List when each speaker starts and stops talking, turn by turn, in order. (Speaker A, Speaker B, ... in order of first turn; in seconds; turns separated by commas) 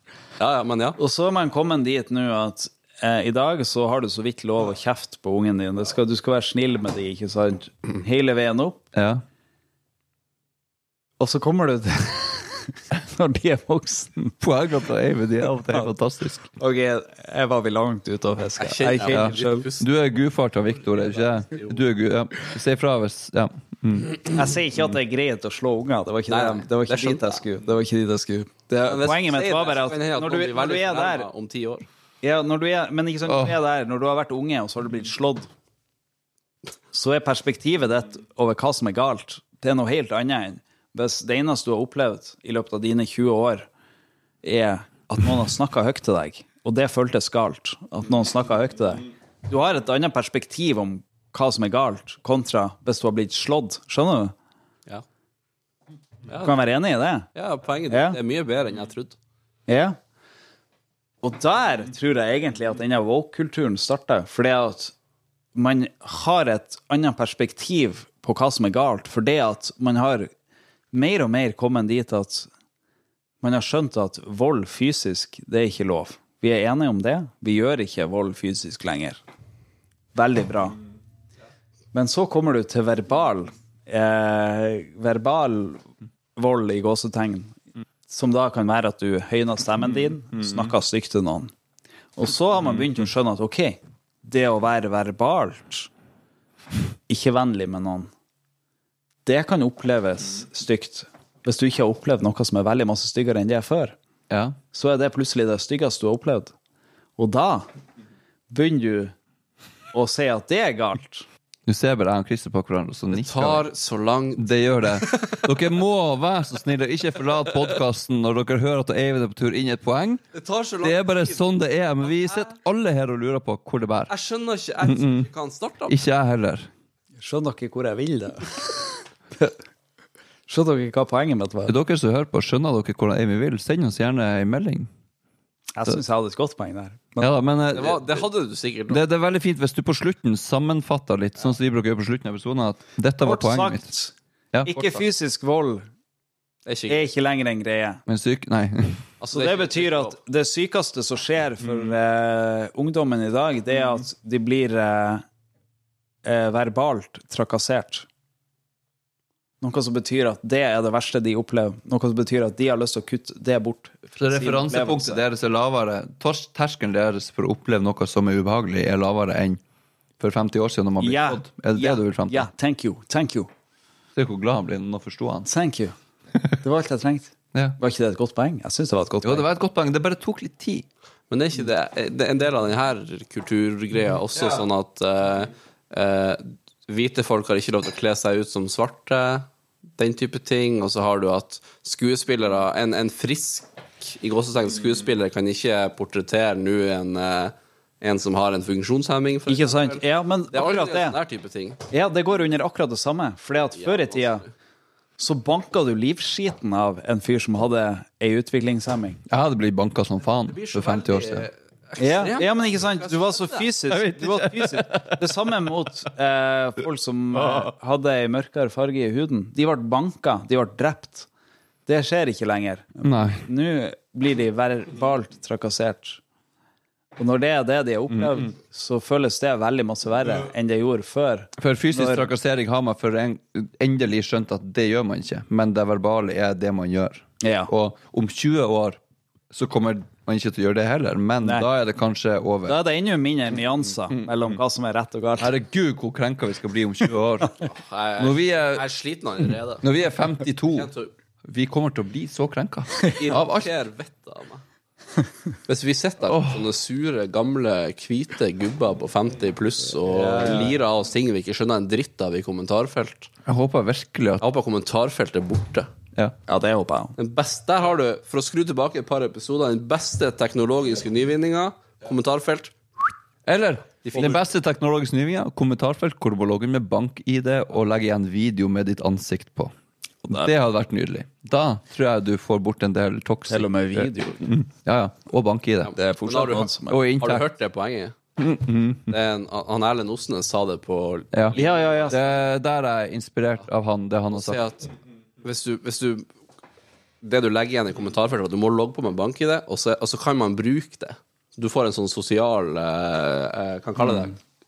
Speaker A: 0.4-1.0, Speaker B: 1.0-8.8, Speaker C: 8.9-9.2, Speaker B: 11.2-14.3, Speaker C: 14.4-16.4, Speaker B: 16.6-19.7, Speaker A: 18.6-19.9, Speaker C: 19.1-24.3, Speaker A: 21.5-21.8, Speaker B: 24.3-31.3, Speaker A: 26.3-27.4, Speaker A: 28.9-31.9, Speaker B: 32.2-35.5, Speaker C: 33.3-33.6, Speaker B: 36.9-43.7, Speaker B: 44.4-54.3, Speaker A: 56.3-56.6, Speaker B: 56.4-57.3, Speaker A: 57.4-59.2, Speaker B: 57.9-58.2, Speaker B: 59.7-60.0, Speaker B: 61.2-64.9, Speaker B: 65.5-70.3, Speaker B: 70.9-72.5, Speaker B: 73.4-79.2, Speaker B: 80.2-80.8, Speaker B: 81.9-87.6, Speaker B: 88.1-91.5, Speaker B: 92.2-95.9, Speaker B: 97.1-98.1, Speaker B: 99.2-104.0, Speaker C: 104.3-104.6, Speaker B: 104.7-106.5, Speaker B: 107.2-107.7, Speaker B: 108.5-109.1, Speaker B: 109.9-111.3, Speaker C: 111.7-113.7, Speaker A: 113.1-115.4, Speaker C: 114.4-120.3, Speaker A: 120.3-121.5, Speaker C: 120.8-124.1, Speaker A: 122.1-122.4, Speaker A: 124.1-126.0, Speaker C: 124.8-125.3, Speaker C: 125.9-126.7, Speaker B: 127.2-129.5, Speaker B: 130.5-131.8, Speaker C: 131.7-134.9, Speaker B: 135.8-137.3, Speaker C: 137.2-138.2, Speaker A: 137.7-139.0, Speaker C: 138.9-143.9, Speaker B: 143.2-144.1, Speaker C: 144.5-145.0, Speaker B: 144.6-145.9, Speaker A: 146.7-147.1, Speaker B: 146.9-148.0, Speaker C: 148.1-149.0, Speaker A: 149.2-150.2, Speaker B: 149.3-155.2, Speaker B: 156.2-158.1, Speaker B: 159.6-165.2, Speaker C: 164.2-169.6, Speaker C: 170.2-172.5, Speaker B: 171.0-173.5, Speaker C: 174.2-175.5, Speaker B: 175.5-175.9, Speaker B: 176.6-179.5, Speaker C: 179.2-180.8, Speaker A: 181.3-189.4, Speaker A: 190.0-201.8, Speaker B: 199.5-201.2, Speaker B: 201.9-204.4, Speaker A: 203.8-204.4, Speaker B: 205.2-209.2, Speaker C: 209.3-211.5, Speaker A: 210.5-213.7, Speaker B: 212.0-221.3, Speaker C: 213.9-215.3, Speaker C: 217.4-217.7, Speaker B: 221.9-226.2, Speaker C: 223.0-223.4, Speaker B: 227.2-232.3, Speaker C: 231.6-239.0, Speaker B: 237.4-237.7, Speaker C: 239.5-242.8, Speaker B: 242.7-245.5, Speaker C: 245.4-247.6, Speaker A: 247.6-249.8, Speaker C: 248.2-248.8, Speaker C: 249.8-250.9, Speaker A: 250.7-251.1, Speaker C: 251.5-253.7, Speaker A: 253.2-254.6, Speaker A: 255.7-263.3, Speaker C: 256.3-256.7, Speaker B: 260.1-260.8, Speaker C: 263.5-264.4, Speaker A: 264.4-265.9, Speaker B: 266.5-267.1, Speaker A: 267.2-272.7, Speaker C: 273.5-279.7, Speaker A: 274.1-274.4, Speaker C: 280.2-285.9, Speaker B: 283.5-284.5, Speaker A: 285.8-288.1, Speaker B: 286.0-287.0, Speaker C: 286.9-287.5, Speaker C: 288.4-289.1, Speaker A: 289.1-292.1, Speaker B: 291.6-292.3, Speaker C: 292.1-294.6, Speaker A: 294.3-294.9, Speaker A: 295.4-296.3, Speaker A: 297.2-304.4